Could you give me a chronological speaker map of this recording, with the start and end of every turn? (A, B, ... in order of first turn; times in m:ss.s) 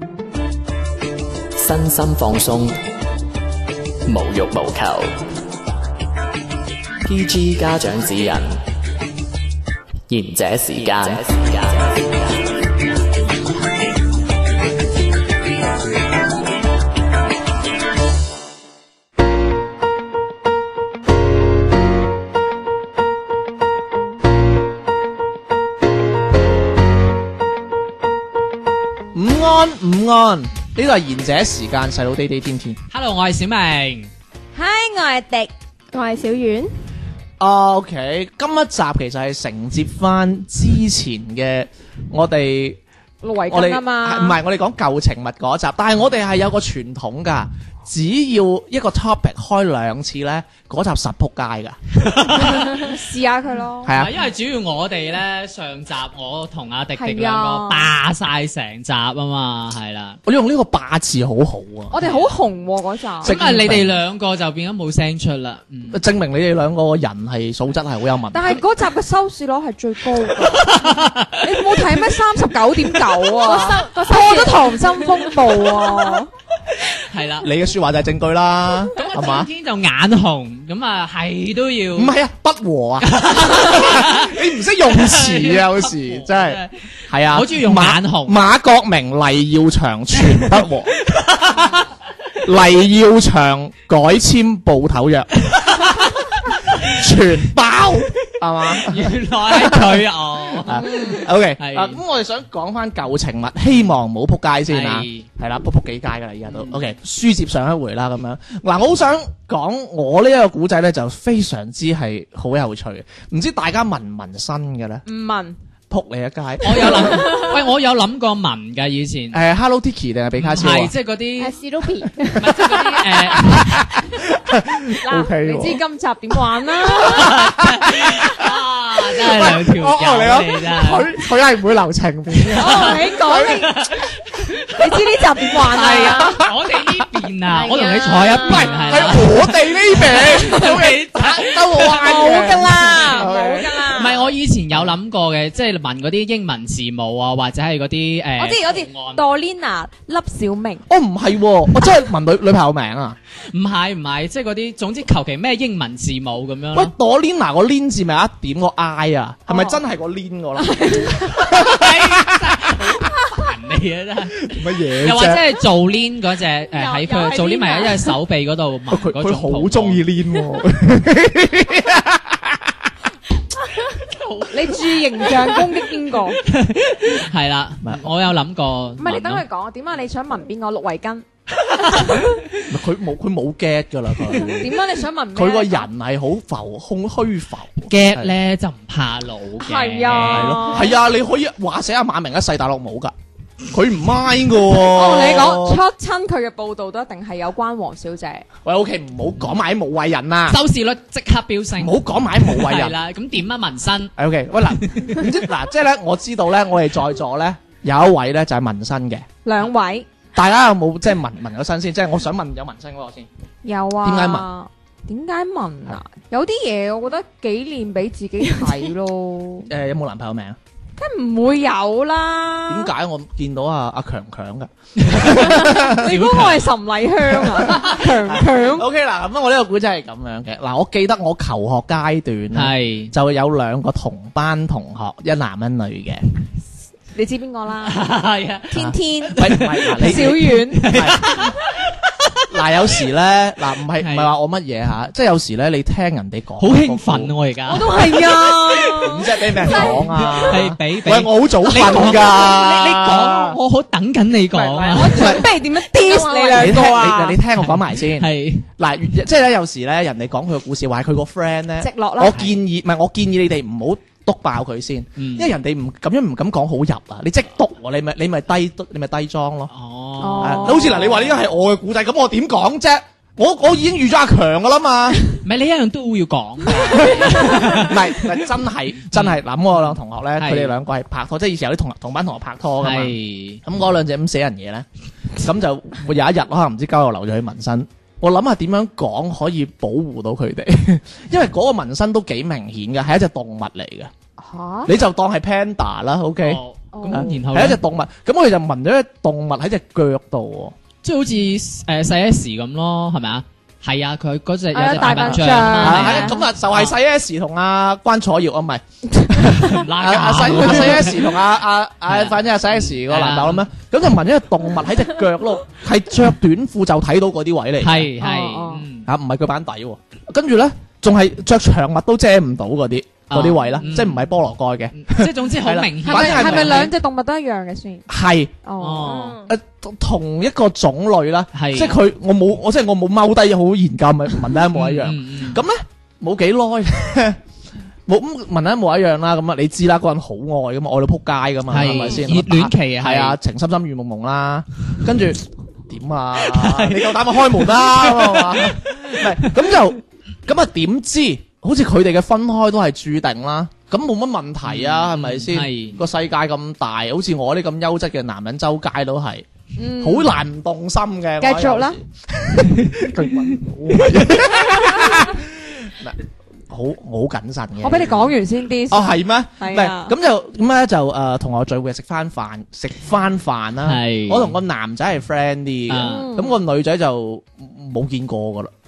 0:01.6-0:02.8 A
0:04.1-0:05.1 A
0:07.0-0:08.6 A
0:10.1-0:12.5 A
0:29.1-0:32.8 B
0:32.9-0:34.1 C
0:34.6-0:35.5 D
0:35.9-0:36.7 E
0:37.4-0:42.8 B
0:43.2-0:44.4 D
0:43.5-0:52.6 B
0:52.1-0:52.8 C
0:52.5-0:53.9 D
0:53.8-0:54.2 B
0:53.9-1:00.2 C
0:57.0-0:57.9 D
1:00.3-1:02.0 B
1:01.9-1:03.4 D
1:02.0-1:02.3 C
1:03.2-1:04.0 B
1:03.3-1:06.0 C
1:05.9-1:08.6 B
1:08.3-1:16.3 D
1:10.8-1:12.0 C
1:13.4-1:15.3 E
1:16.9-1:17.5 C
1:17.4-1:19.5 B
1:18.9-1:22.2 C
1:22.0-1:31.0 B
1:23.1-1:24.4 C
1:24.9-1:28.4 C
1:31.1-1:31.8 C
1:32.4-1:36.1 B
1:36.7-1:55.0 B
1:38.7-1:42.0 C
1:40.7-1:41.2 D
1:44.7-1:45.3 C
1:46.5-1:46.8 C
1:55.1-1:55.6 D
1:55.9-1:57.5 B
1:56.6-1:59.4 C
1:59.3-2:00.9 B
2:00.4-2:01.6 C
2:01.4-2:02.5 E
2:02.4-2:03.8 C
2:02.4-2:05.8 B
2:05.0-2:07.5 D
2:07.0-2:08.5 B
2:07.1-2:11.1 C
2:09.1-2:14.1 B
2:12.4-2:14.8 C
2:12.6-2:13.8 D
2:14.8-2:16.4 D
2:15.5-2:23.3 C
2:15.8-2:16.5 B
2:17.5-2:19.2 D
2:18.4-2:23.8 B
2:21.9-2:24.3 D
2:23.9-2:29.2 C
2:28.4-2:30.8 D
2:30.9-2:33.2 B
2:33.5-2:36.9 C
2:36.7-2:42.9 B
2:39.5-2:39.8 D
2:40.6-2:41.5 D
2:41.5-2:50.0 C
2:44.5-2:45.4 B
2:46.7-2:48.2 E
2:48.9-2:52.9 B
2:54.1-2:55.4 C
2:54.5-2:56.4 D
2:56.5-2:59.4 C
2:59.0-3:01.2 D
3:02.7-3:04.8 B
3:04.6-3:05.9 D
3:05.3-3:08.3 B
3:07.9-3:10.9 C
3:09.6-3:11.0 D
3:10.1-3:13.1 B
3:13.7-3:15.8 B
3:14.7-3:18.5 D
3:18.6-3:20.6 B
3:20.5-3:24.1 C
3:21.8-3:23.0 B
3:24.2-3:29.3 B
3:24.8-3:25.4 C
3:29.4-3:30.1 D
3:30.4-3:33.3 B
3:33.6-3:39.7 D
3:34.0-3:34.5 B
3:39.7-3:40.6 B
3:41.0-3:42.9 D
3:42.7-3:46.5 B
3:45.0-3:46.7 C
3:45.4-3:48.9 D
3:47.3-3:56.2 B
3:52.5-3:53.1 C
3:57.2-3:58.0 D
3:57.8-4:02.4 C
3:58.7-4:01.0 D
3:58.8-4:01.5 B
4:02.5-4:07.3 B
4:04.0-4:04.3 C
4:06.6-4:15.6 C
4:07.7-4:10.6 D
4:09.0-4:13.6 B
4:14.5-4:17.4 D
4:15.1-4:15.5 B
4:16.1-4:16.6 E
4:16.5-4:16.9 C
4:16.5-4:29.7 B
4:17.6-4:18.7 C
4:21.8-4:22.4 D
4:22.2-4:22.6 C
4:25.2-4:25.5 C
4:29.7-4:31.2 C
4:30.2-4:31.1 D
4:30.4-4:35.4 B
4:35.4-4:38.4 C
4:36.9-4:54.1 B
4:39.1-4:40.8 C
4:42.8-4:43.6 C
4:54.4-4:54.9 D
4:54.9-5:00.8 B
4:56.4-4:57.8 C
4:56.9-4:57.4 D
5:01.0-5:06.9 C
5:04.7-5:06.4 D
5:05.0-5:18.1 B
5:09.6-5:11.4 C
5:12.1-5:13.7 C
5:17.8-5:19.1 C
5:18.2-5:18.8 D
5:19.0-5:26.9 B
5:23.3-5:24.2 C
5:25.0-5:26.9 C
5:26.0-5:28.1 D
5:28.1-5:28.5 B
5:28.6-5:29.2 D
5:28.8-5:29.4 C
5:29.0-5:29.5 E
5:29.5-5:37.4 B
5:31.5-5:32.0 C
5:34.7-5:35.6 C
5:38.1-5:59.5 B
5:41.7-5:43.4 C
5:41.9-5:42.2 D
5:46.4-5:49.5 C
5:54.6-5:56.0 C
5:59.8-6:00.3 D
6:00.0-6:06.2 B
6:01.4-6:02.0 D
6:03.9-6:04.4 C
6:06.7-6:08.4 B
6:07.8-6:10.1 D
6:08.9-6:18.7 B
6:13.8-6:14.6 C
6:15.9-6:16.3 C
6:16.0-6:16.6 D